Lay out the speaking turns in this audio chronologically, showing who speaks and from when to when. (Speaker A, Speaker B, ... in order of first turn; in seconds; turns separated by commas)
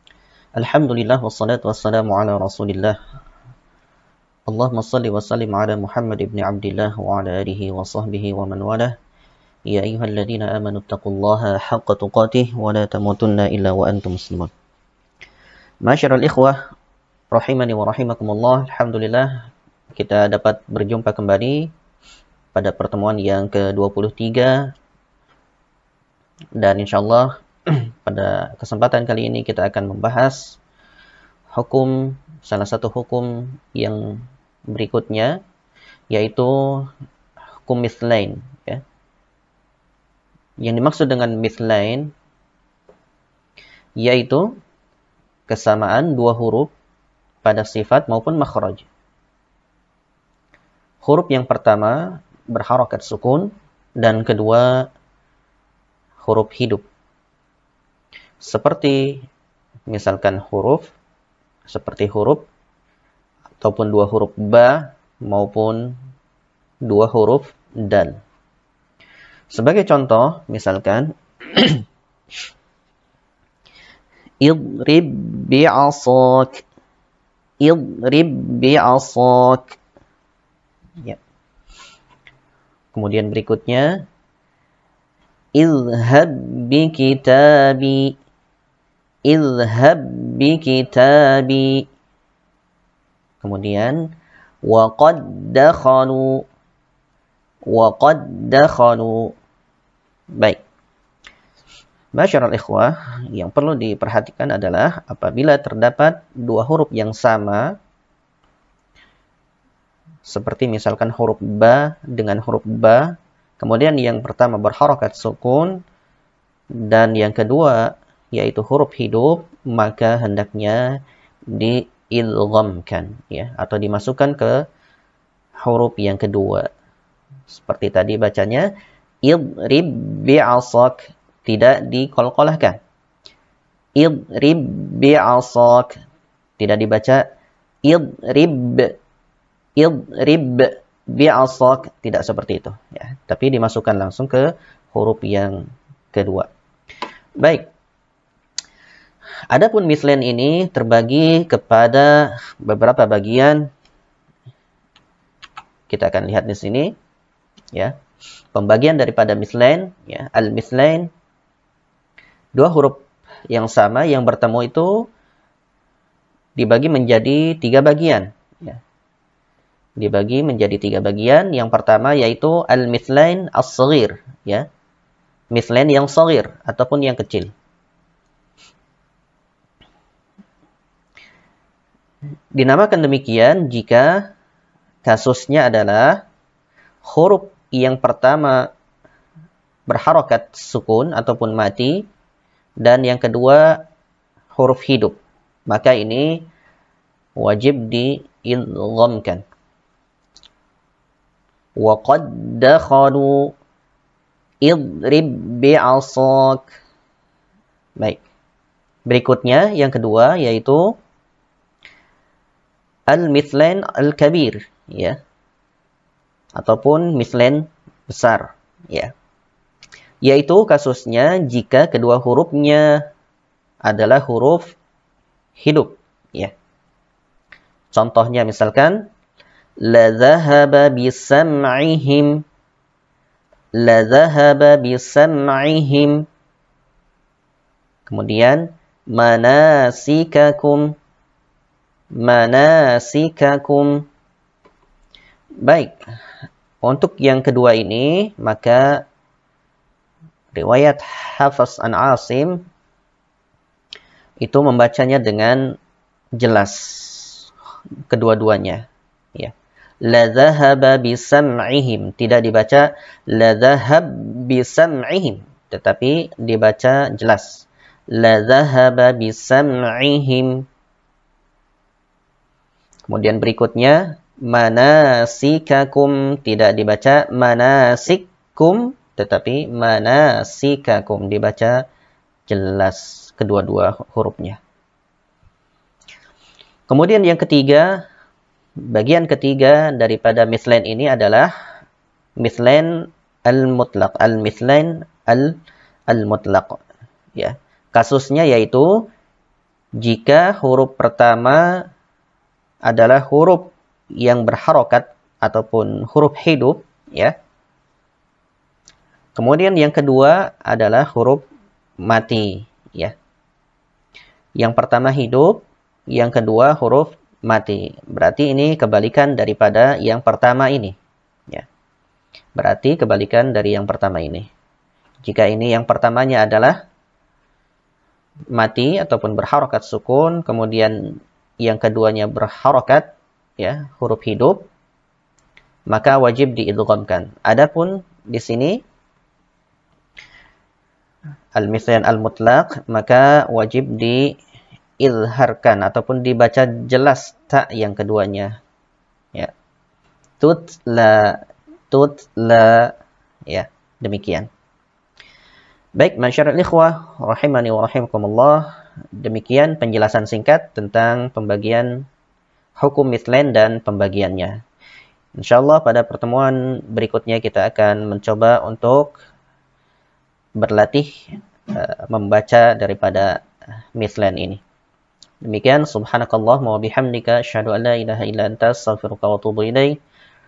Speaker A: 0.6-3.0, Speaker A: 4.5-8.9, Speaker A: 9.7-14.5, Speaker A: 15.8-16.6, Speaker A: 17.3-21.7, Speaker A: 22.5-24.7, Speaker A: 26.6-30.6, Speaker A: 31.5-35.4, Speaker A: 36.1-36.9, Speaker A: 37.6-38.8, Speaker A: 40.6-42.1, Speaker A: 44.0-44.5, Speaker A: 45.5-46.7, Speaker A: 47.4-48.9, Speaker A: 51.0-54.9, Speaker A: 56.2-56.8, Speaker A: 58.4-59.2, Speaker A: 59.9-60.9, Speaker A: 61.7-62.5, Speaker A: 63.6-65.9, Speaker A: 66.8-68.2, Speaker A: 69.5-71.8, Speaker A: 74.4-76.6, Speaker A: 77.6-79.8, Speaker A: 82.9-84.0, Speaker A: 85.5-88.2, Speaker A: 89.2-91.8, Speaker A: 93.4-94.0, Speaker A: 94.6-96.4, Speaker A: 97.7-99.3, Speaker A: 100.3-100.6, Speaker A: 102.1-107.7, Speaker A: 110.2-115.8, Speaker A: 116.7-121.0, Speaker A: 121.5-124.6, Speaker A: 125.6-126.7, Speaker A: 127.5-128.7, Speaker A: 129.2-132.8, Speaker A: 134.0-135.9, Speaker A: 136.6-137.2, Speaker A: 137.8-138.9, Speaker A: 139.8-145.6, Speaker A: 146.1-146.5, Speaker A: 147.4-147.7, Speaker A: 149.5-153.7, Speaker A: 155.9-156.9, Speaker A: 158.5-161.1, Speaker A: 162.5-165.1, Speaker A: 166.6-168.8, Speaker A: 170.0-174.7, Speaker A: 175.5-177.5, Speaker A: 182.5-184.3, Speaker A: 185.0-186.2, Speaker A: 187.0-188.7, Speaker A: 189.9-192.0, Speaker A: 192.8-193.8, Speaker A: 194.5-196.5, Speaker A: 197.3-199.4, Speaker A: 201.8-203.5, Speaker A: 204.6-206.7, Speaker A: 208.0-208.2, Speaker A: 209.1-211.0, Speaker A: 213.1-215.2, Speaker A: 216.5-219.1, Speaker A: 220.2-223.0, Speaker A: 223.8-224.8, Speaker A: 225.6-226.5, Speaker A: 227.9-229.1, Speaker A: 229.8-232.4, Speaker A: 233.8-236.2, Speaker A: 238.1-240.9, Speaker A: 242.2-244.0, Speaker A: 245.6-246.0, Speaker A: 246.8-249.0, Speaker A: 250.5-252.6, Speaker A: 254.4-255.7, Speaker A: 256.4-257.4, Speaker A: 258.1-259.5, Speaker A: 260.0-270.6, Speaker A: 273.1-281.8, Speaker A: 282.5-284.6, Speaker A: 286.9-288.0, Speaker A: 288.8-291.5, Speaker A: 292.4-295.6, Speaker A: 296.1-296.8, Speaker A: 297.4-299.1, Speaker A: 300.0-301.8, Speaker A: 302.9-307.3, Speaker A: 309.3-311.4, Speaker A: 312.0-313.1, Speaker A: 314.6-321.0, Speaker A: 322.5-324.5, Speaker A: 325.2-326.8, Speaker A: 328.5-334.7, Speaker A: 335.9-338.8, Speaker A: 341.5-344.4, Speaker A: 345.0-348.6, Speaker A: 350.4-352.9, Speaker A: 353.5-354.5, Speaker A: 356.0-362.1, Speaker A: 362.8-364.6, Speaker A: 365.3-369.2, Speaker A: 370.6-373.4, Speaker A: 373.9-374.6, Speaker A: 375.4-380.0